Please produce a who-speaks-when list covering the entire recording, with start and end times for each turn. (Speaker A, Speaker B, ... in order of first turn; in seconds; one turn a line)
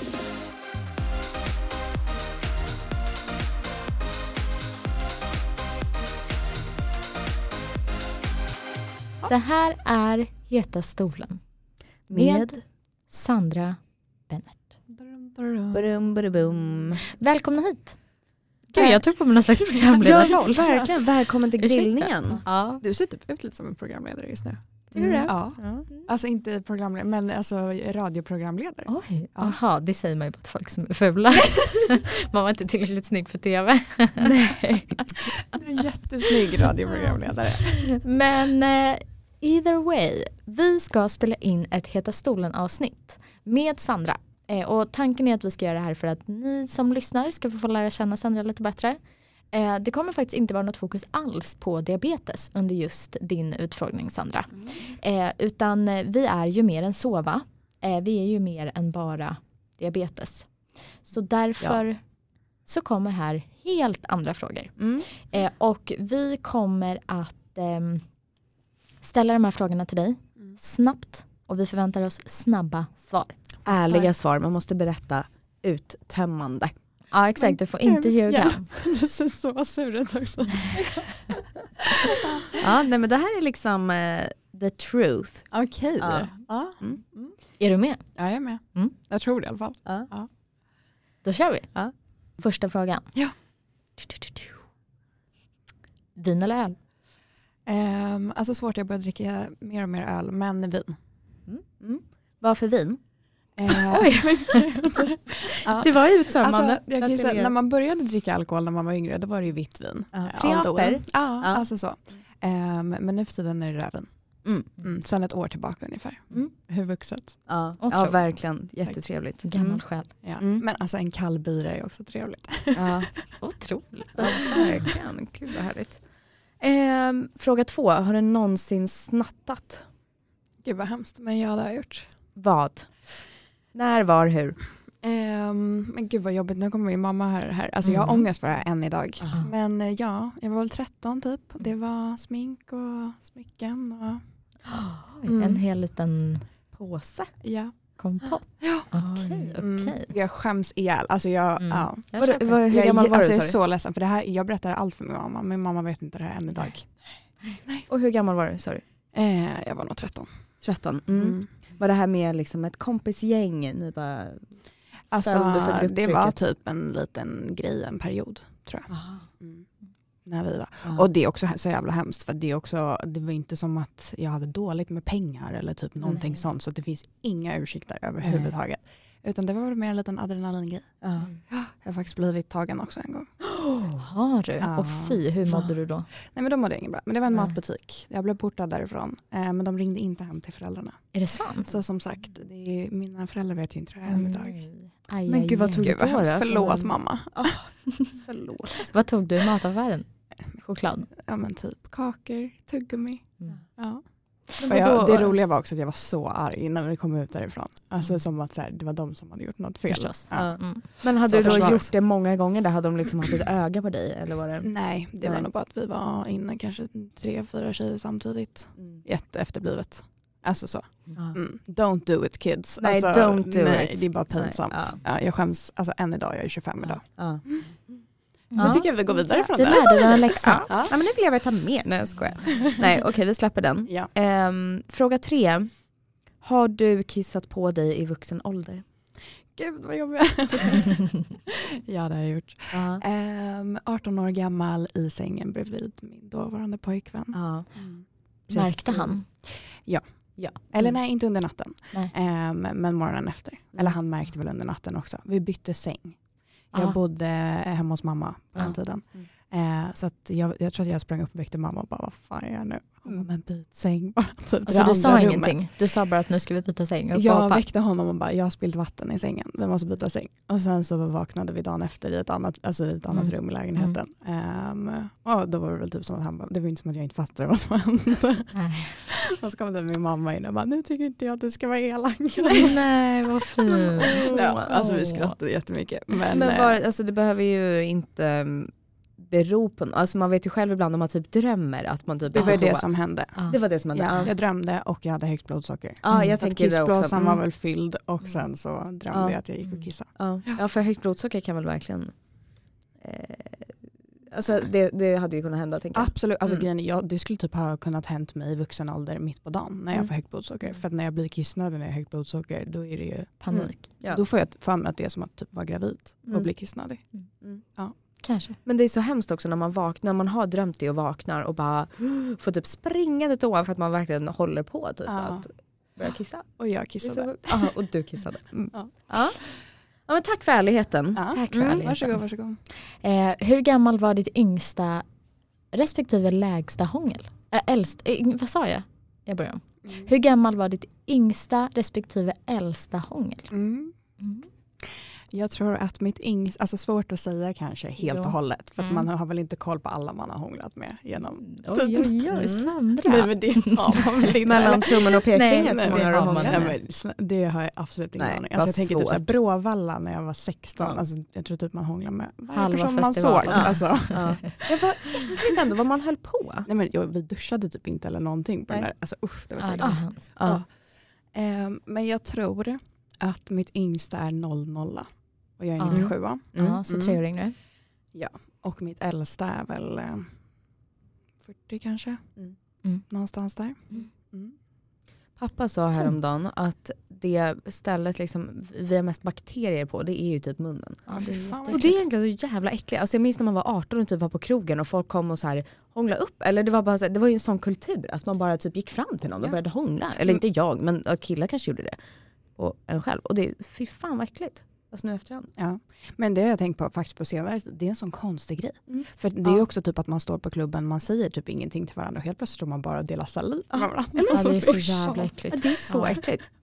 Speaker A: 9.3-11.4
Speaker A: 12.1-14.6
Speaker B: 12.1-12.6
Speaker C: 14.9-15.9
Speaker B: 15.7-17.0
Speaker A: 17.1-18.1
Speaker A: 18.6-20.9
Speaker C: 18.7-21.0
Speaker B: 20.0-22.4
Speaker A: 21.6-22.8
Speaker C: 22.3-29.6
Speaker B: 24.9-25.9
Speaker A: 24.9-26.1
Speaker A: 28.9-35.3
Speaker B: 34.2-34.8
Speaker C: 35.4-37.9
Speaker A: 36.9-49.0
Speaker A: 49.5-62.0
Speaker A: 62.6-68.1
Speaker B: 64.8-65.1
Speaker A: 69.0-74.1
Speaker B: 73.6-76.7
Speaker A: 77.1-78.7
Speaker C: 77.3-81.3
Speaker C: 82.2-82.6
Speaker B: 82.6-87.0
Speaker C: 85.5-87.4
Speaker A: 87.6-88.9
Speaker C: 88.2-90.3
Speaker B: 89.8-90.1
Speaker A: 91.2-93.2
Speaker A: 96.2-96.8
Speaker C: 97.7-100.9
Speaker B: 101.5-103.0
Speaker C: 103.6-117.5
Speaker B: 103.7-104.9
Speaker B: 105.8-107.5
Speaker B: 110.1-111.7
Speaker B: 114.4-114.7
Speaker B: 117.5-120.6
Speaker A: 117.8-118.5
Speaker A: 119.4-120.1
Speaker C: 120.2-123.2
Speaker B: 122.8-123.5
Speaker A: 123.4-124.9
Speaker B: 124.2-129.8
Speaker C: 130.6-132.1
Speaker B: 132.3-132.9
Speaker B: 133.7-134.6
Speaker C: 135.0-144.2
Speaker A: 137.8-138.2
Speaker B: 139.2-139.5
Speaker A: 139.2-139.5
Speaker A: 144.7-147.4
Speaker B: 145.3-145.6
Speaker C: 147.4-148.9
Speaker A: 148.0-150.1
Speaker B: 148.9-149.6
Speaker C: 149.6-157.1
Speaker A: 151.6-152.6
Speaker B: 152.1-153.6
Speaker B: 157.9-158.8
Speaker C: 159.1-161.5
Speaker B: 160.6-164.6
Speaker C: 165.1-169.7
Speaker B: 165.2-166.5
Speaker B: 168.9-169.2
Speaker C: 170.2-183.3
Speaker B: 178.2-178.5
Speaker B: 181.0-181.3
Speaker B: 183.6-184.1
Speaker A: 184.0-186.1
Speaker C: 184.6-185.7
Speaker C: 186.2-194.7
Speaker A: 187.3-187.6
Speaker A: 191.1-191.8
Speaker A: 194.1-196.0
Speaker B: 195.2-198.9
Speaker C: 195.8-197.7
Speaker A: 198.7-201.1
Speaker C: 201.1-212.0
Speaker B: 204.6-205.3
Speaker A: 209.9-211.8
Speaker B: 210.3-215.5
Speaker C: 214.6-227.8
Speaker B: 218.8-219.0
Speaker B: 222.8-225.0
Speaker B: 227.1-228.0
Speaker A: 228.5-230.8
Speaker C: 228.5-231.0
Speaker B: 228.5-228.8
Speaker B: 229.7-235.8
Speaker C: 233.8-234.1
Speaker B: 236.4-238.8
Speaker C: 239.5-265.9
Speaker B: 242.7-243.0
Speaker B: 247.3-247.9
Speaker B: 248.5-249.2
Speaker A: 248.5-249.4
Speaker A: 250.4-252.1
Speaker B: 258.6-259.3
Speaker A: 264.6-267.6
Speaker C: 267.1-282.9
Speaker A: 273.1-274.0
Speaker A: 278.5-279.0
Speaker A: 282.4-285.4
Speaker C: 283.7-286.8
Speaker B: 284.0-284.7
Speaker B: 286.3-292.9
Speaker A: 292.3-292.7
Speaker C: 292.3-300.6
Speaker A: 293.3-294.3
Speaker B: 293.4-294.3
Speaker B: 296.0-297.4
Speaker A: 296.1-296.4
Speaker B: 299.1-299.4
Speaker A: 299.6-299.9
Speaker B: 300.1-302.2
Speaker B: 303.0-306.6
Speaker C: 305.9-317.9
Speaker B: 309.9-310.8
Speaker A: 313.4-314.0
Speaker B: 313.5-314.2
Speaker B: 316.2-316.7
Speaker B: 317.4-329.4
Speaker A: 318.2-318.6
Speaker C: 325.1-325.5
Speaker C: 326.6-327.7
Speaker C: 328.7-329.5
Speaker B: 330.1-331.9
Speaker C: 331.1-332.6
Speaker A: 331.6-332.2
Speaker A: 332.8-335.0
Speaker A: 335.7-343.5
Speaker C: 339.8-340.1
Speaker C: 343.5-343.9
Speaker A: 344.2-344.5
Speaker C: 344.8-364.8
Speaker A: 348.0-349.0
Speaker A: 351.4-354.6
Speaker B: 352.3-352.7
Speaker B: 354.4-356.8
Speaker A: 355.3-356.8
Speaker B: 358.2-359.3
Speaker A: 362.5-364.5
Speaker B: 363.5-366.7
Speaker C: 366.6-370.7
Speaker A: 369.6-370.3
Speaker B: 369.8-370.6
Speaker C: 371.2-377.3
Speaker A: 375.8-377.5
Speaker B: 375.8-376.8
Speaker C: 378.1-380.3
Speaker C: 381.4-382.4
Speaker C: 383.1-384.5
Speaker B: 385.4-391.1
Speaker A: 391.1-392.0
Speaker C: 391.1-392.0
Speaker B: 391.6-402.0
Speaker C: 399.4-400.4
Speaker B: 402.6-405.5
Speaker C: 405.6-416.3
Speaker B: 408.9-409.6
Speaker B: 413.7-414.9
Speaker A: 414.3-416.3
Speaker B: 415.5-416.5